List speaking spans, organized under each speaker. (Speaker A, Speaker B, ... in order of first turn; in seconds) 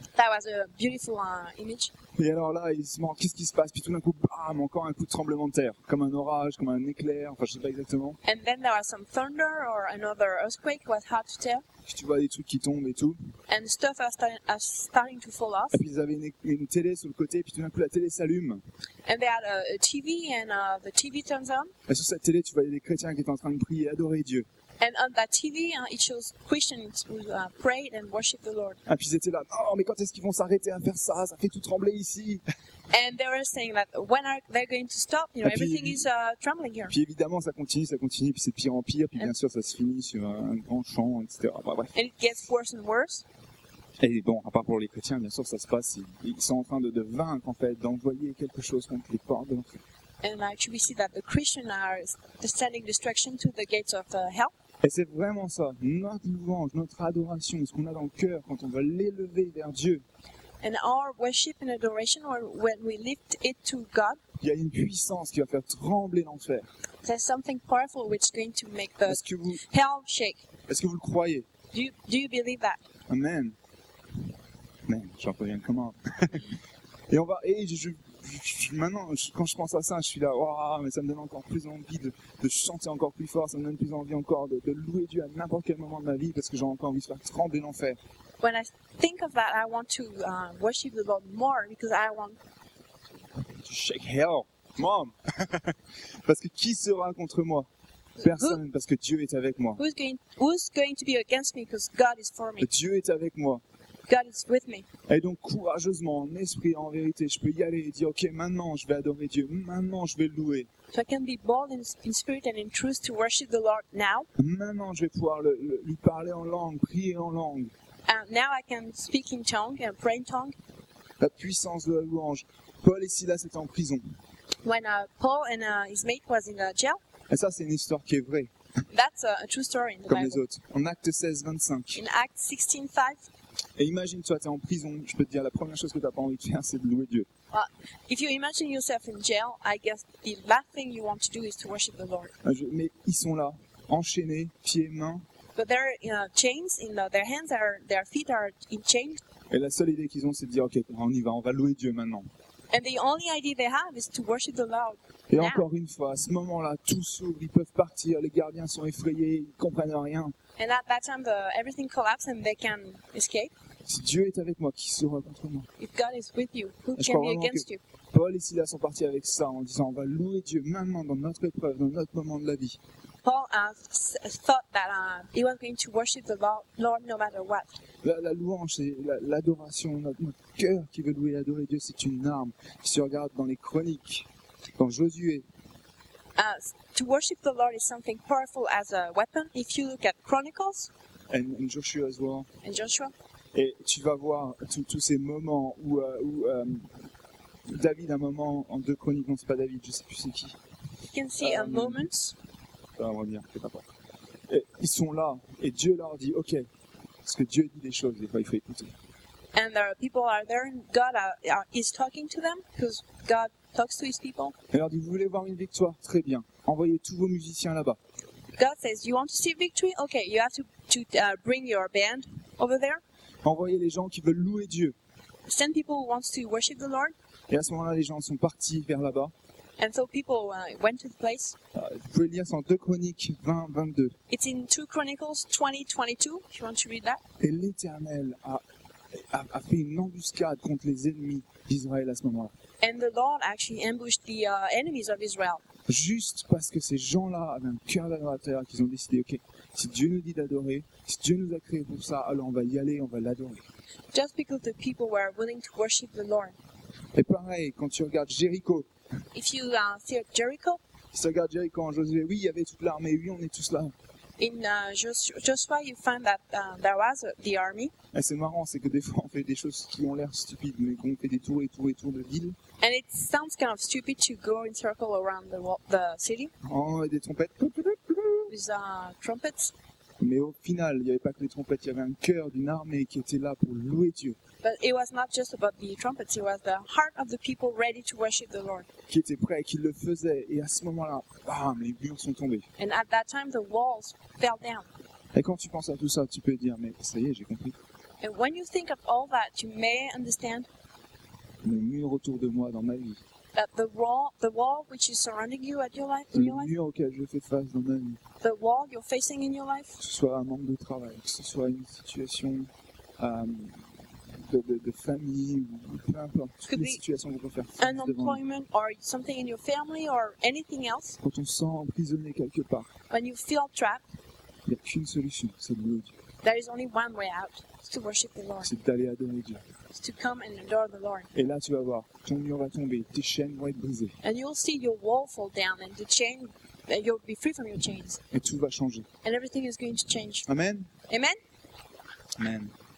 Speaker A: 0.2-1.9, 8.2-11.6, 13.5-15.8, 19.1-21.7, 24.8-28.8, 32.9-37.0, 41.9-43.2, 50.2-54.5, 60.6-64.2, 67.0-70.4, 71.7-72.8, 88.4-92.4, 98.2-98.6, 99.8-102.7, 104.1-104.8, 110.9-114.3, 118.1-120.5, 124.6-127.0, 128.9-130.4, 131.9-133.2, 137.5-142.3, 145.6-149.2, 152.7-155.7, 160.6-163.5, 165.8-167.8, 173.2-177.7, 186.4-190.9, 192.6-193.1, 201.1-202.3, 209.5-214.6, 218.6-223.0, 225.5-227.1, 229.8-231.6, 234.3-237.2, 242.8-245.6, 254.1-256.6, 259.3-260.8, 264.4-267.9, 272.8-276.5, 278.5-279.7, 284.6-288.9, 292.8-294.9, 298.2-300.7, 303.5-306.7, 308.4-310.0, 316.7-317.0, 317.8-321.2, 323.1-324.0, 326.4-328.7, 329.9-331.3, 334.2-338.2, 339.2-340.5, 341.1-341.4
Speaker B: 2.2-8.2, 11.8-13.2, 15.7-18.6, 21.9-24.5, 28.9-32.4, 35.4-36.1, 36.9-41.9, 44.0-49.8, 54.8-60.0, 64.4-66.7, 69.1-69.6, 70.7-71.5, 73.1-73.6, 74.9-76.5, 77.1-88.0, 93.6-97.7, 98.2-99.8, 102.6-103.6, 105.1-110.7, 114.4-117.7, 121.2-124.0, 127.3-128.5, 130.1-132.1, 133.8-137.3, 142.4-145.2, 149.5-152.3, 155.3-160.3, 163.9-165.7, 167.0-172.8, 178.0-185.4, 191.3-192.5, 193.5-196.9, 197.7-200.6, 201.4-202.1, 203.0-203.9, 204.5-206.7, 207.2-208.9, 214.7-218.0, 223.4-224.9, 227.5-229.3, 231.8-234.2, 237.4-238.6, 239.1-242.5, 245.9-253.7, 257.1-258.9, 261.1-263.9, 268.1-272.6, 276.6-278.5, 280.2-284.4, 289.1-292.7, 295.3-297.8, 301.6-303.2, 306.3-308.2, 310.0-313.9, 314.4-318.4, 321.2-322.9, 324.7-326.1, 328.6-329.6, 331.3-334.2, 338.3-339.1, 340.5-340.9, 342.4-342.7